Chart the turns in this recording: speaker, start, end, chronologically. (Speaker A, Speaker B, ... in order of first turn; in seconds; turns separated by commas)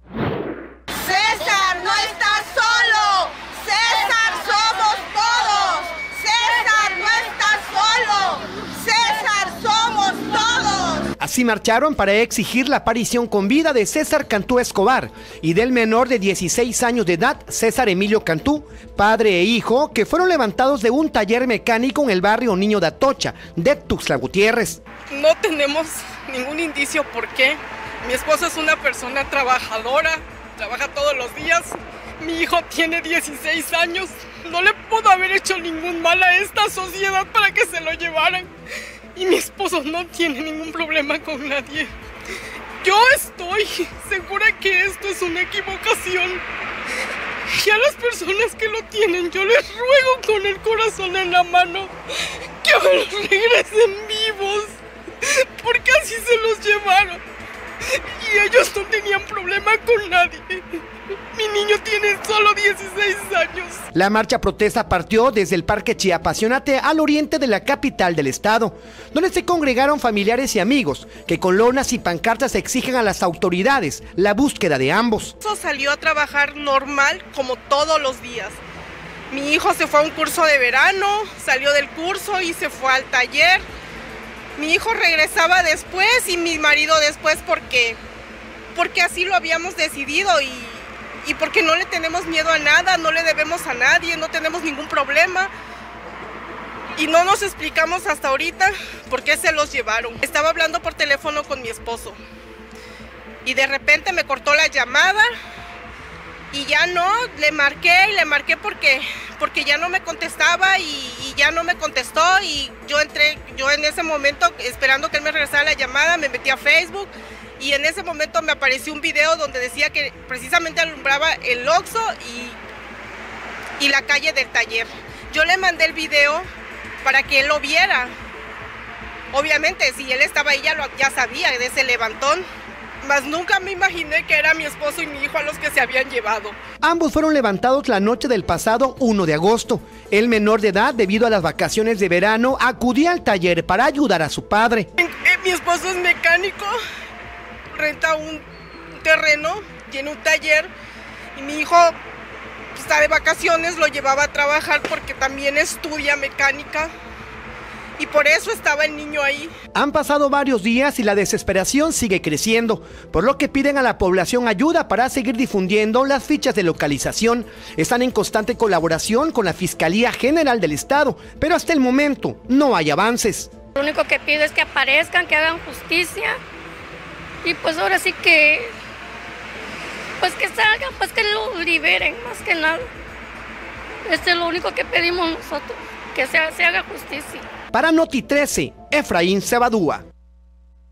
Speaker A: 1.0-11.0, Speaker B: 11.2-24.8, Speaker A: 25.1-38.5, Speaker A: 39.1-41.9, Speaker A: 42.8-46.4, Speaker A: 47.5-51.9, Speaker A: 52.6-57.2, Speaker A: 57.8-60.8, Speaker A: 61.3-63.8, Speaker B: 63.9-75.3, Speaker A: 75.4-78.6, Speaker A: 79.3-83.6, Speaker A: 84.6-88.0, Speaker A: 88.7-95.5, Speaker A: 97.0-102.2, Speaker A: 103.4-105.3, Speaker A: 106.5-122.6, Speaker A: 123.8-126.5, Speaker A: 127.0-128.1, Speaker A: 129.3-132.5, Speaker A: 133.0-136.6, Speaker B: 136.8-144.9, Speaker A: 145.0-146.8, Speaker A: 147.7-148.4, Speaker A: 149.0-150.7, Speaker A: 151.3-151.9, Speaker A: 152.7-156.9, Speaker A: 158.0-159.5, Speaker B: 159.7-173.5, Speaker C: 173.8-176.4, Speaker C: 177.4-178.7, Speaker C: 180.2-182.9, Speaker C: 184.1-187.4, Speaker B: 187.7-190.0